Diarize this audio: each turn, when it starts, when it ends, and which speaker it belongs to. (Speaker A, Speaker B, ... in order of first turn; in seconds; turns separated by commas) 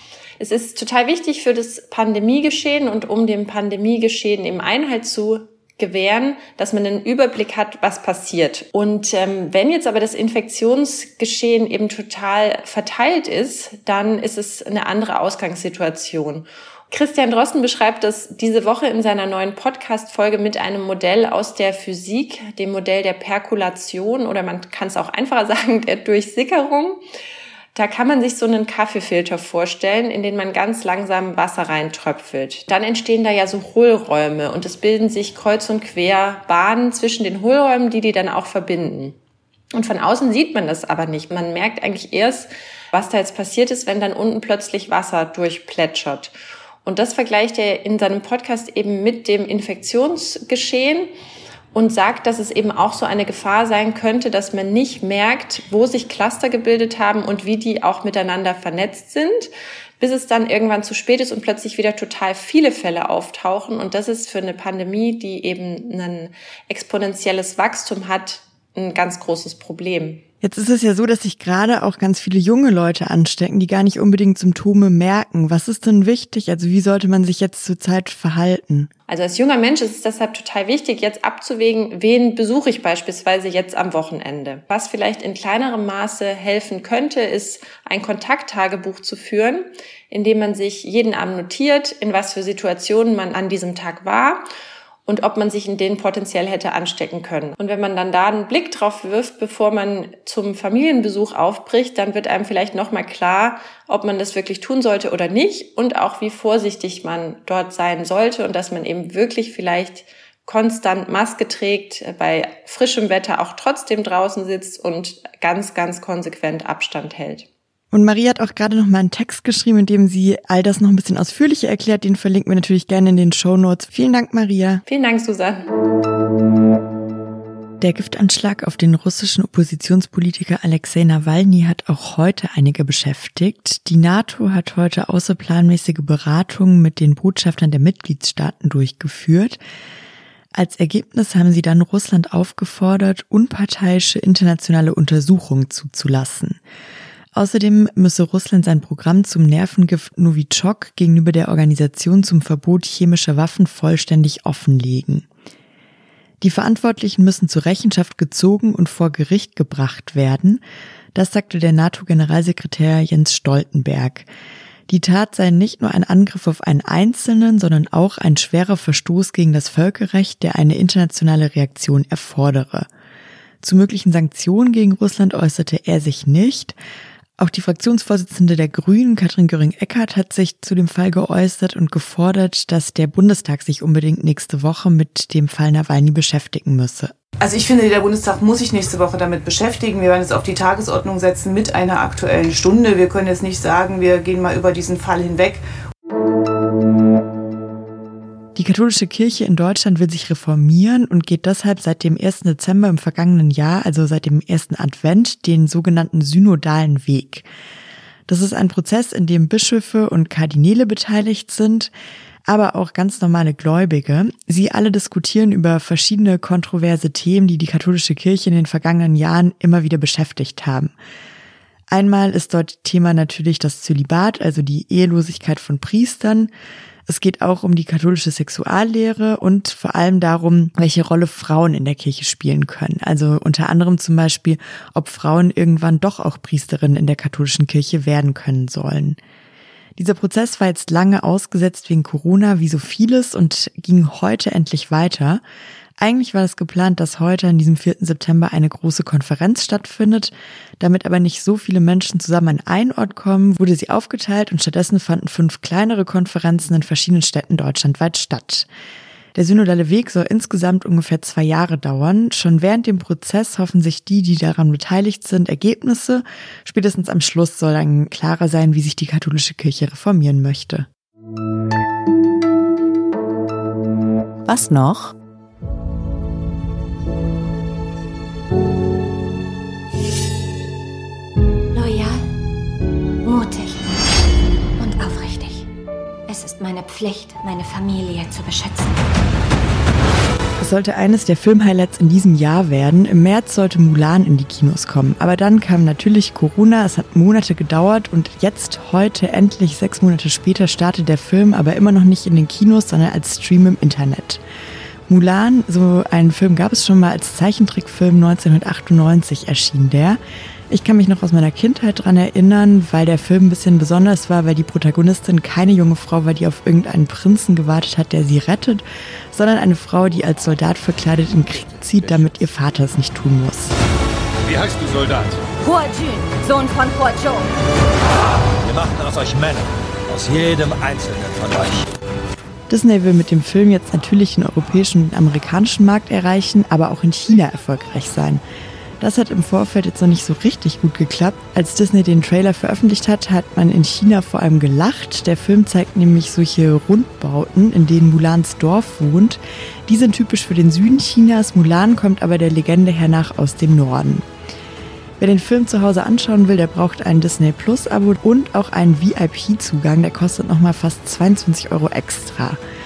Speaker A: 0.4-27.0, Speaker A: 27.7-39.2, Speaker A: 39.7-46.3, Speaker A: 46.8-51.1, Speaker A: 51.7-70.2, Speaker B: 70.4-78.9, Speaker A: 79.1-94.4, Speaker A: 95.1-117.5, Speaker B: 117.9-124.8, Speaker A: 124.9-125.7, Speaker B: 127.8-139.6, Speaker B: 140.5-146.6, Speaker B: 147.3-155.3, Speaker B: 156.4-160.6, Speaker B: 161.2-164.3, Speaker B: 164.9-172.9, Speaker B: 173.6-176.8, Speaker B: 177.4-187.1, Speaker C: 187.4-195.6, Speaker B: 198.6-207.5, Speaker B: 208.3-211.9, Speaker B: 212.5-220.9, Speaker B: 221.9-226.5, Speaker B: 227.1-239.2, Speaker B: 240.0-245.4, Speaker B: 246.0-258.7, Speaker B: 259.4-270.9, Speaker B: 274.5-275.1, Speaker D: 281.7-282.2, Speaker D: 283.2-283.9, Speaker D: 284.8-285.7, Speaker D: 286.3-289.0, Speaker B: 290.6-304.4, Speaker B: 305.1-310.2, Speaker B: 310.7-323.8, Speaker E: 321.6-322.4, Speaker E: 324.4-325.5, Speaker D: 325.6-327.5, Speaker E: 328.6-331.9, Speaker B: 332.7-338.4, Speaker B: 339.0-354.3, Speaker B: 355.2-362.6